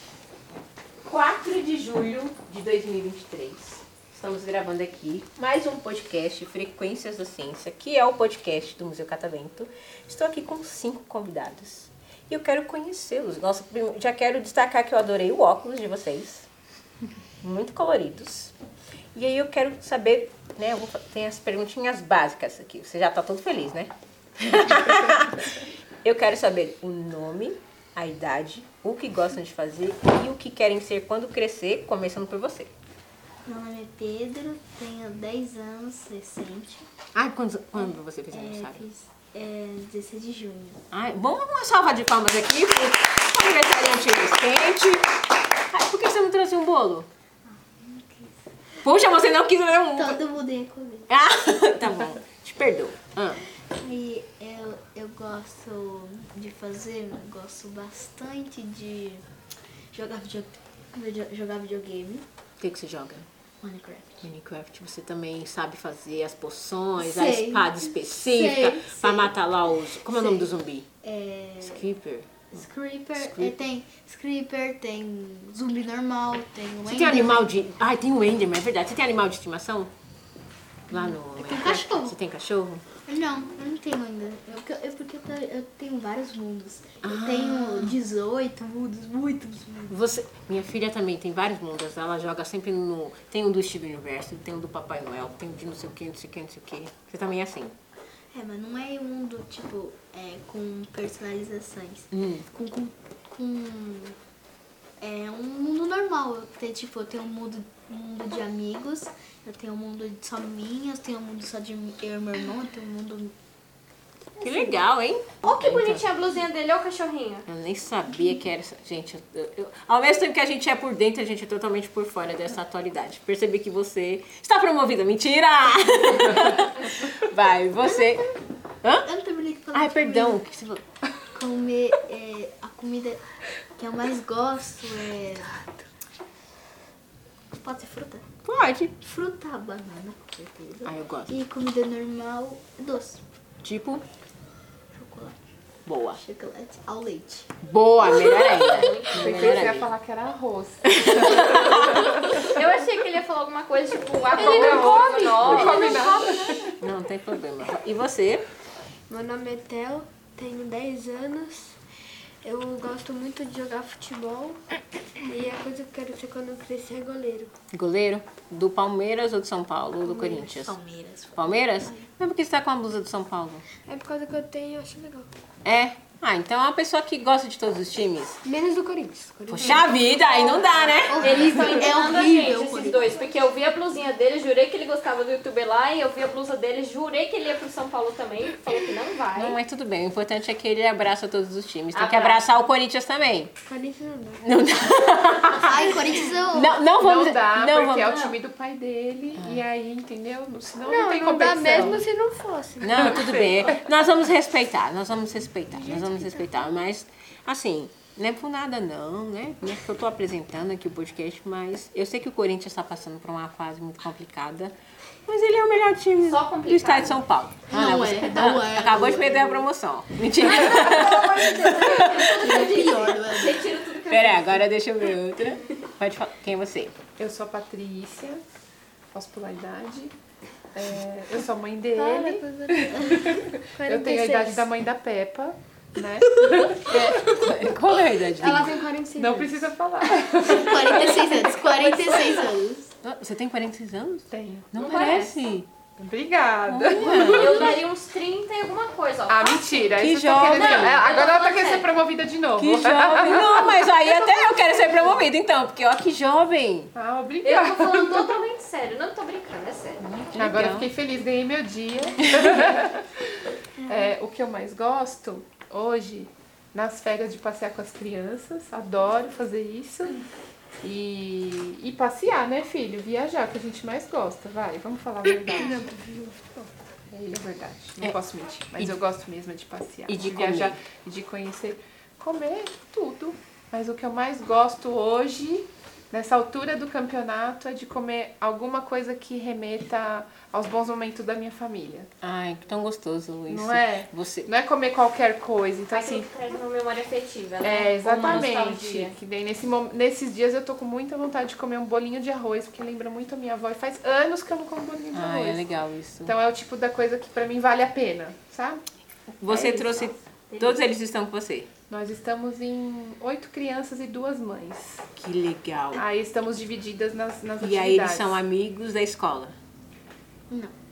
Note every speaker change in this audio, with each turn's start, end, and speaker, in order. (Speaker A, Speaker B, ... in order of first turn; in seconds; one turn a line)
Speaker A: 1.0-16.5
Speaker A: 17.4-18.5
Speaker A: 19.1-32.7
Speaker B: 33.5-36.9
Speaker A: 37.1-38.8
Speaker B: 37.8-40.8
Speaker A: 40.9-45.1
Speaker A: 45.7-47.1
Speaker B: 47.6-48.3
Speaker A: 48.8-50.2
Speaker B: 49.9-51.1
Speaker A: 51.1-53.4
Speaker B: 53.7-59.2
Speaker B: 59.9-62.2
Speaker A: 62.6-63.3
Speaker B: 63.6-64.1
Speaker A: 64.2-70.8
Speaker B: 67.0-69.3
Speaker B: 69.9-71.9
Speaker A: 71.6-72.5
Speaker B: 72.5-77.5
Speaker A: 73.2-73.5
Speaker A: 76.8-79.9
Speaker A: 80.9-82.8
Speaker B: 80.9-82.2
Speaker B: 83.1-89.9
Speaker A: 87.0-88.0
Speaker A: 89.9-97.8
Speaker B: 98.3-104.2
Speaker A: 102.1-102.4
Speaker B: 105.0-113.3
Speaker A: 114.4-116.0
Speaker C: 114.4-114.7
Speaker C: 115.4-117.4
Speaker A: 117.5-128.3
Speaker A: 128.8-129.1
Speaker B: 129.0-130.4
Speaker A: 129.7-130.8
Speaker B: 131.3-133.2
Speaker B: 133.7-135.6
Speaker B: 137.6-138.2
Speaker A: 138.4-138.9
Speaker B: 139.0-143.2
Speaker A: 140.8-141.3
Speaker A: 143.6-144.0
Speaker B: 144.9-145.4
Speaker A: 145.8-146.2
Speaker B: 146.2-147.5
Speaker A: 147.6-149.9
Speaker B: 148.0-148.8
Speaker C: 148.3-149.6
Speaker D: 149.1-152.5
Speaker A: 150.9-152.1
Speaker C: 152.4-156.6
Speaker D: 154.3-156.7
Speaker E: 155.7-156.3
Speaker A: 156.8-158.4
Speaker E: 159.1-161.7
Speaker E: 162.4-164.6
Speaker E: 165.2-167.5
Speaker A: 167.7-170.8
Speaker E: 170.0-170.5
Speaker B: 170.6-172.1
Speaker A: 171.4-173.6
Speaker E: 173.8-175.3
Speaker A: 175.6-178.4
Speaker E: 178.4-181.3
Speaker A: 179.5-181.5
Speaker C: 180.4-189.6
Speaker B: 181.0-183.1
Speaker A: 189.3-193.5
Speaker C: 191.9-192.5
Speaker E: 193.7-194.4
Speaker A: 194.4-198.1
Speaker B: 195.5-196.8
Speaker D: 197.0-202.1
Speaker C: 198.1-198.3
Speaker E: 200.8-203.5
Speaker A: 202.8-214.7
Speaker D: 202.8-203.8
Speaker A: 215.2-222.4
Speaker C: 216.2-217.2
Speaker B: 217.7-219.7
Speaker C: 220.7-224.6
Speaker B: 222.3-223.6
Speaker A: 224.1-226.9
Speaker D: 227.2-228.4
Speaker D: 229.1-230.1
Speaker D: 230.7-237.4
Speaker E: 231.9-234.7
Speaker E: 236.4-236.9
Speaker A: 236.9-238.8
Speaker E: 238.4-239.7
Speaker D: 239.1-241.5
Speaker B: 240.4-242.9
Speaker A: 243.0-245.7
Speaker D: 244.3-244.7
Speaker C: 244.8-245.3
Speaker D: 246.0-247.8
Speaker A: 246.7-247.8
Speaker C: 247.2-249.9
Speaker D: 249.3-254.0
Speaker A: 250.0-251.0
Speaker C: 250.4-251.9
Speaker A: 252.6-256.9
Speaker D: 256.9-258.3
Speaker C: 257.4-260.0
Speaker A: 260.0-260.9
Speaker D: 260.4-263.2
Speaker D: 263.8-270.2
Speaker D: 270.8-275.9
Speaker D: 276.5-292.1
Speaker A: 280.1-280.8
Speaker A: 292.2-294.5
Speaker D: 293.5-296.3
Speaker C: 295.9-299.1
Speaker D: 297.6-308.8
Speaker A: 298.2-298.6
Speaker A: 305.1-306.3
Speaker A: 309.4-311.7
Speaker C: 310.5-310.8
Speaker D: 311.9-315.0
Speaker A: 315.2-316.0
Speaker D: 315.9-318.4
Speaker A: 317.6-319.5